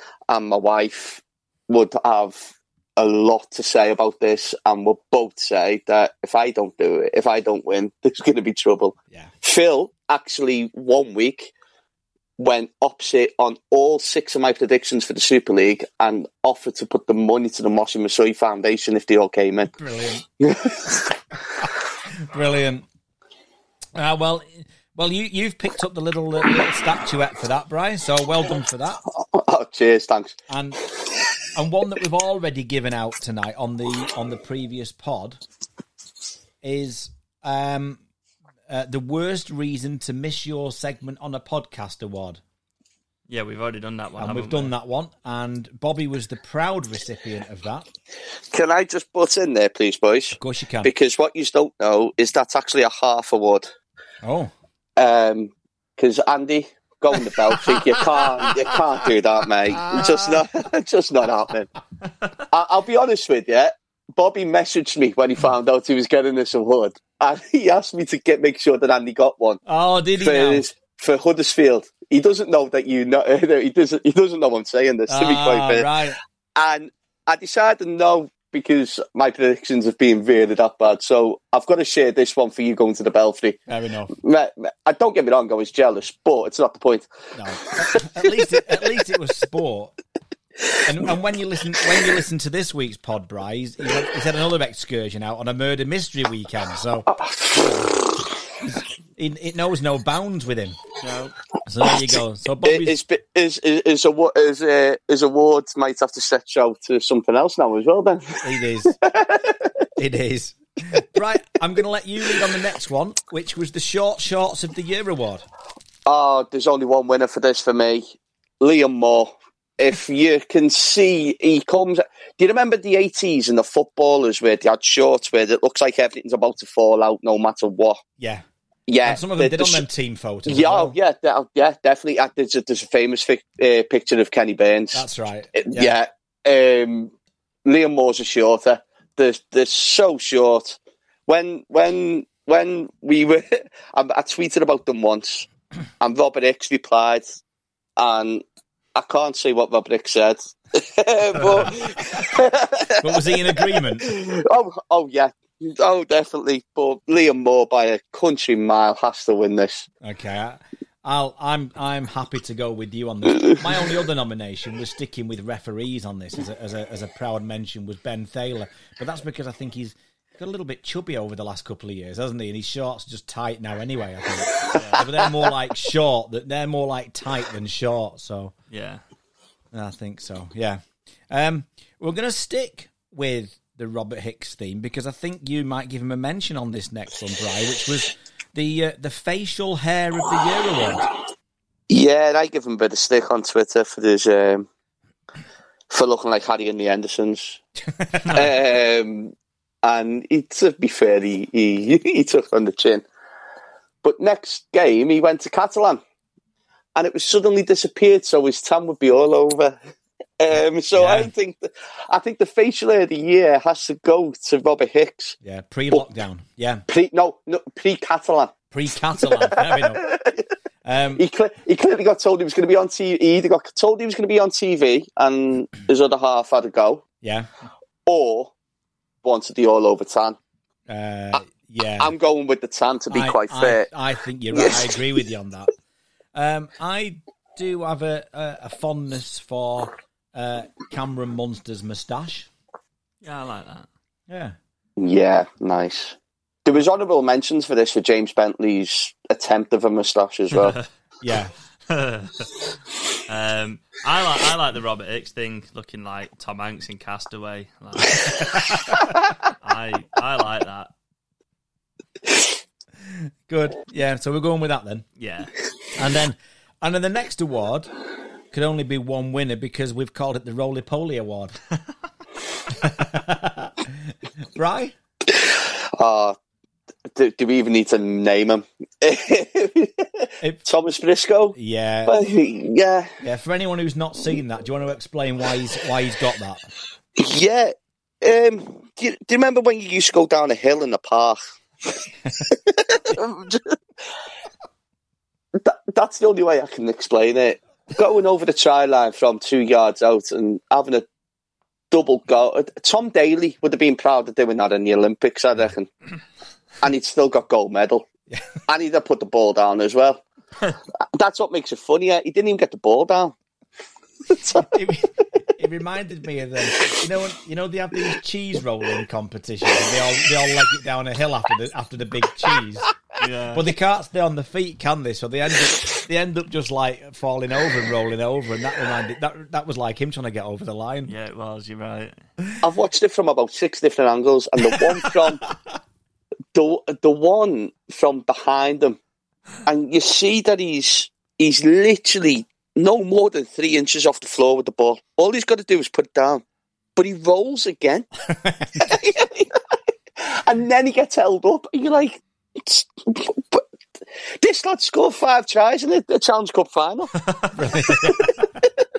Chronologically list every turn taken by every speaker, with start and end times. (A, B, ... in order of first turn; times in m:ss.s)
0:00.3-0:11.5 A
0:12.4-0:19.7 A
0:19.7-0:20.2 B
0:20.4-0:21.1 A
0:21.6-0:22.8 B
0:23.9-0:29.0 B
0:29.1-0:30.4 A
0:30.5-0:30.8 B
0:31.5-0:35.4 B
0:36.6-0:38.0 B
0:38.7-0:42.4 B
0:43.3-0:44.7 C
0:44.2-0:47.9 B
0:48.5-0:53.7 A
0:50.3-0:50.9 B
0:54.2-0:54.5 B
0:55.0-1:01.7 A
0:57.6-0:58.5 B
0:59.7-1:00.4 B
1:02.5-1:09.6 A
1:09.6-1:10.6 B
1:10.2-1:15.9 A
1:15.1-1:16.2 B
1:16.6-1:23.6 A
1:23.7-1:24.1 B
1:24.1-1:27.1 A
1:27.3-1:29.9 B
1:27.9-1:28.3 A
1:30.8-1:38.0 B
1:37.1-1:37.8 A
1:38.6-1:40.8 B
1:41.0-1:41.3 C
1:41.6-1:43.0 B
1:42.6-1:49.8 A
1:48.4-1:49.0 B
1:50.0-1:55.4 B
1:56.0-2:08.0 A
2:08.2-2:08.4 B
2:08.9-2:09.8 A
2:09.0-2:10.9 B
2:10.4-2:17.1 A
2:14.9-2:16.0 B
2:17.6-2:25.5 A
2:26.0-2:27.2 A
2:28.0-2:28.4 A
2:28.9-2:39.9 A
2:31.3-2:31.8 B
2:33.0-2:34.1 B
2:40.0-2:58.5 B
2:54.7-2:55.0 C
2:58.7-2:59.0 C
2:59.7-3:11.1 B
3:11.9-3:14.7 A
3:15.9-3:17.6 A
3:17.8-3:18.5 B
3:18.2-3:23.0 A
3:24.0-3:26.0 A
3:27.0-3:29.8 A
3:30.4-3:35.4 A
3:30.9-3:31.3 B
3:35.4-3:36.8 B
3:36.9-3:38.5 A
3:38.7-3:40.0 B
3:39.2-3:40.5 A
3:40.8-3:41.2 B
3:41.2-3:47.0 A
3:47.2-3:47.5 B
3:48.0-3:48.5 A
3:49.2-3:50.4 A
3:50.9-3:52.1 B
3:52.0-3:53.9 A
3:53.1-3:55.7 B
3:54.5-3:54.8 A
3:56.3-4:02.5 B
4:03.2-4:03.9 C
4:04.3-4:04.6 B
4:05.0-4:10.8 A
4:10.6-4:10.8 C
4:11.2-4:11.5 B
4:11.9-4:12.6 C
4:13.3-4:18.7 C
4:19.6-4:20.9 C
4:23.0-4:25.0 B
4:25.2-4:25.5 C
4:26.0-4:27.9 B
4:28.5-4:31.6 B
4:32.7-4:34.9 B
4:35.3-4:36.4 A
4:37.2-4:43.1 A
4:41.5-4:42.2 B
4:43.2-4:46.6 B
4:47.2-4:51.4 A
4:52.4-4:53.8 A
4:55.6-5:01.0 A
5:01.9-5:05.9 A
5:06.8-5:08.0 A
5:08.6-5:10.2 A
5:11.0-5:13.3 A
5:14.3-5:22.9 B
5:23.2-5:23.6 C
5:23.5-5:31.1 B
5:31.1-5:32.2 C
5:32.6-5:35.5 A
5:36.5-5:39.0 A
5:39.6-5:46.4 A
5:47.0-5:48.1 A
5:48.3-5:49.0 B
5:48.8-5:49.6 A
5:50.2-5:53.6 A
5:54.4-5:57.1 A
5:57.2-5:58.1 C
5:57.5-5:58.5 B